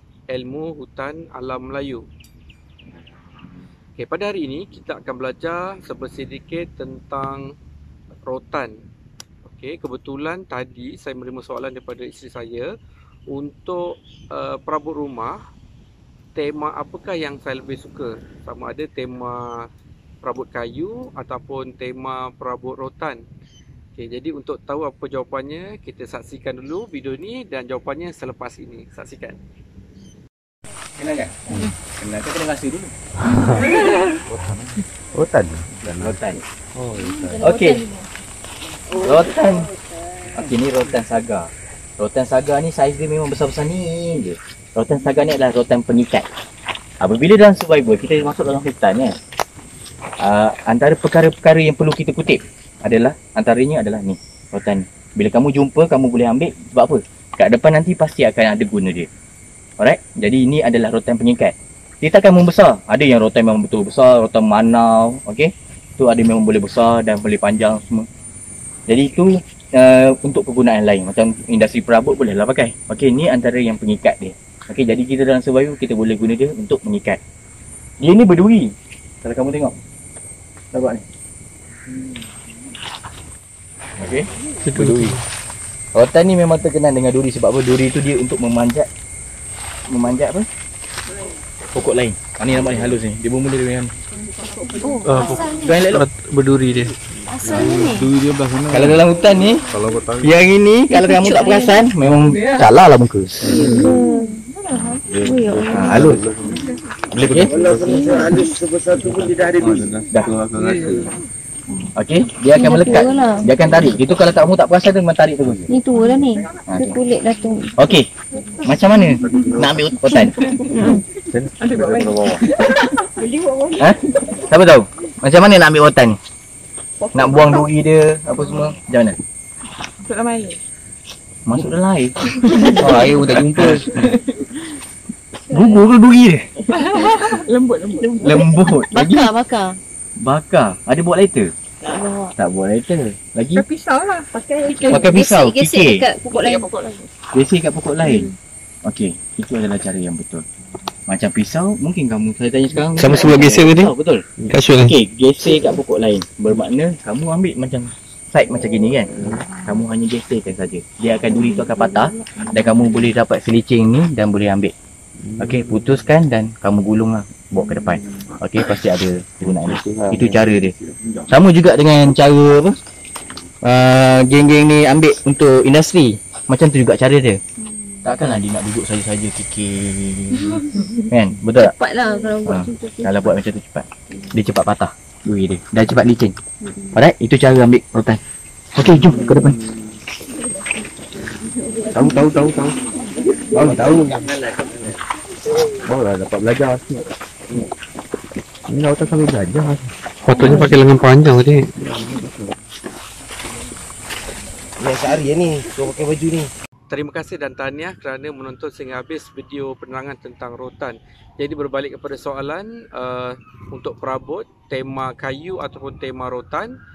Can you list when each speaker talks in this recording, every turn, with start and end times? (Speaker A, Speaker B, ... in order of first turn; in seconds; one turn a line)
Speaker A: 0.3-2.0
Speaker A: 4.0-7.5
Speaker A: 8.3-8.7
Speaker A: 9.5-12.7
Speaker A: 13.3-15.4
Speaker A: 16.4-19.7
Speaker A: 20.2-23.2
Speaker A: 23.9-29.4
Speaker B: 31.0-32.9
Speaker C: 35.2-36.2
Speaker B: 35.8-36.4
Speaker C: 36.8-37.5
Speaker D: 37.0-37.9
Speaker B: 37.4-37.9
Speaker B: 38.9-39.7
Speaker B: 40.3-41.5
Speaker B: 42.0-46.3
Speaker B: 47.0-49.1
Speaker B: 50.2-59.1
Speaker B: 59.8-68.1
Speaker B: 68.9-77.2
Speaker B: 78.0-78.7
Speaker B: 79.2-79.7
Speaker B: 80.7-81.0
Speaker B: 84.0-85.2
Speaker A: 84.7-85.2
Speaker B: 85.9-88.9
Speaker B: 89.9-90.5
Speaker B: 91.7-93.9
Speaker E: 94.5-95.4
Speaker D: 94.8-95.7
Speaker A: 95.0-96.9
Speaker B: 95.5-96.0
Speaker D: 97.3-98.1
Speaker C: 97.4-99.0
Speaker B: 98.7-99.7
Speaker C: 99.7-100.3
Speaker B: 100.2-103.6
Speaker D: 100.9-101.8
Speaker D: 103.5-106.2
Speaker C: 103.5-104.0
Speaker C: 105.1-108.0
Speaker B: 105.7-106.2
Speaker B: 107.2-107.6
Speaker F: 107.4-109.9
Speaker D: 107.7-108.5
Speaker C: 109.0-111.1
Speaker B: 110.1-110.3
Speaker B: 112.0-115.7
Speaker D: 112.5-113.5
Speaker D: 115.7-117.7
Speaker B: 116.7-117.0
Speaker B: 117.8-118.0
Speaker B: 118.6-120.3
Speaker C: 119.3-119.8
Speaker E: 120.2-120.9
Speaker D: 120.7-121.0
Speaker C: 121.3-122.4
Speaker E: 121.6-124.4
Speaker B: 123.8-126.2
Speaker E: 127.0-127.7
Speaker B: 127.1-129.2
Speaker E: 130.1-130.6
Speaker B: 131.4-134.0
Speaker E: 132.4-133.2
Speaker C: 132.9-133.8
Speaker B: 135.5-136.4
Speaker E: 136.7-138.8
Speaker B: 138.2-139.3
Speaker D: 138.2-139.8
Speaker B: 140.2-141.5
Speaker D: 141.9-142.3
Speaker B: 142.4-143.6
Speaker E: 143.6-145.1
Speaker D: 144.7-146.7
Speaker B: 144.9-146.0
Speaker E: 146.3-147.1
Speaker B: 147.3-148.3
Speaker D: 148.0-148.3
Speaker B: 148.8-150.4
Speaker B: 151.1-164.7
Speaker A: 153.0-153.9
Speaker A: 154.5-154.9
Speaker B: 165.4-170.8
Speaker C: 169.5-170.7
Speaker B: 171.3-172.7
Speaker B: 173.6-177.4
Speaker B: 178.0-181.8
Speaker D: 181.6-183.3
Speaker B: 182.4-186.3
Speaker D: 186.6-186.9
Speaker B: 186.9-188.2
Speaker B: 188.8-189.6
Speaker C: 191.9-192.8
Speaker C: 193.5-194.2
Speaker C: 195.9-197.0
Speaker C: 198.7-199.9
Speaker A: 200.2-201.7
Speaker F: 204.8-206.5
Speaker A: 206.9-216.8